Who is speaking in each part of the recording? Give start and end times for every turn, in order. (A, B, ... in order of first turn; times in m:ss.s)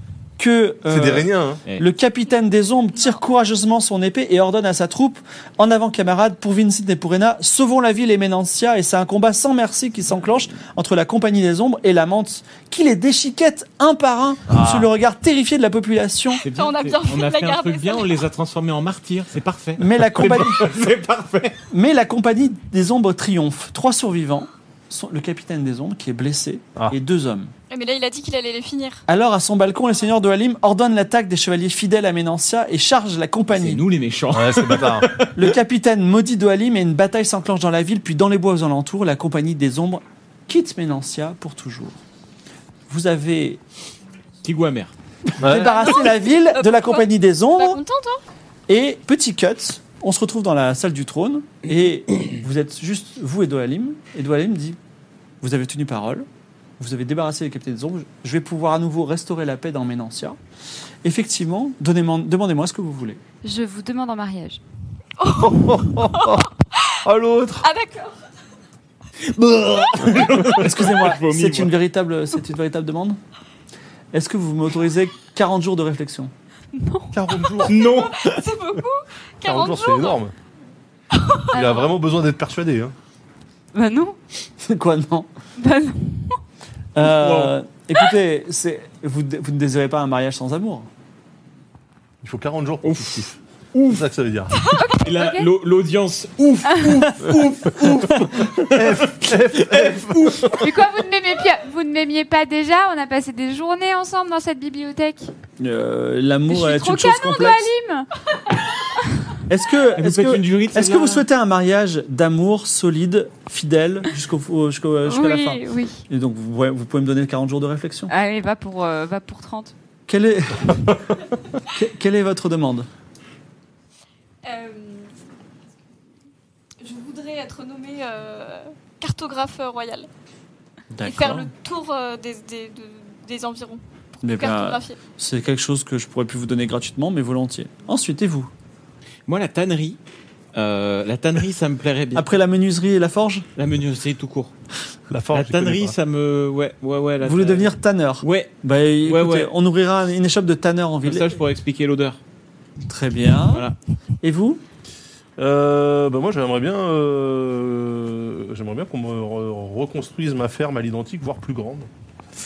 0:00.4-0:16.4 A
0:00.9-0:01.6 B
0:14.5-0:14.9 B
0:16.4-0:21.6 C
0:16.5-0:18.2 D
0:19.8-0:20.7 A
0:21.7-0:27.5 A
0:27.7-0:29.0 D
0:29.1-0:33.8 A
0:33.5-0:35.5 C
0:34.3-0:35.1 B
0:35.3-0:42.0 A
0:42.9-0:43.6 A
0:44.4-0:44.9 C
0:45.3-0:47.8 A
0:45.4-0:45.9 B
0:45.6-0:48.2 D
0:48.7-0:54.8 A
0:55.4-0:56.3 A
0:56.8-1:00.4 A
1:01.0-1:03.2 A
1:03.4-1:04.6 E
1:05.2-1:07.0 D
1:05.4-1:06.1 B
1:07.1-1:07.6 A
1:07.6-1:08.2 D
1:09.3-1:11.8 C
1:10.6-1:13.2 A
1:14.1-1:16.3 A
1:16.7-1:17.1 E
1:17.1-1:17.8 B
1:17.6-1:18.5 C
1:17.8-1:20.2 D
1:19.4-1:20.3 B
1:21.1-1:21.7 D
1:21.5-1:21.9 E
1:21.5-1:23.0 B
1:23.8-1:24.2 E
1:24.6-1:25.3 A
1:25.6-1:26.4 E
1:27.0-1:30.9 A
1:27.0-1:27.6 C
1:32.2-1:33.4 B
1:32.8-1:34.1 C
1:33.9-1:34.6 B
1:34.6-1:35.0 D
1:34.7-1:35.5 E
1:35.0-1:40.6 C
1:38.7-1:40.7 B
1:40.5-1:45.3 E
1:45.6-1:47.7 A
1:46.5-1:48.1 E
1:49.5-1:58.1 A
1:50.0-1:51.3 C
1:55.0-1:56.0 E
1:58.1-1:59.7 E
2:00.1-2:01.0 A
2:01.7-2:02.9 A
2:04.4-2:05.1 D
2:06.8-2:10.1 D
2:10.9-2:11.5 A
2:11.0-2:13.8 D
2:14.2-2:18.5 A
2:14.4-2:15.0 D
2:19.3-2:20.0 C
2:20.6-2:22.3 C
2:22.1-2:23.5 A
2:23.6-2:24.5 C
2:25.1-2:26.0 B
2:25.3-2:29.5 C
2:27.2-2:31.4 A
2:31.0-2:32.2 C
2:32.8-2:33.7 A
2:33.5-2:33.8 C
2:34.2-2:34.6 A
2:35.4-2:41.9 B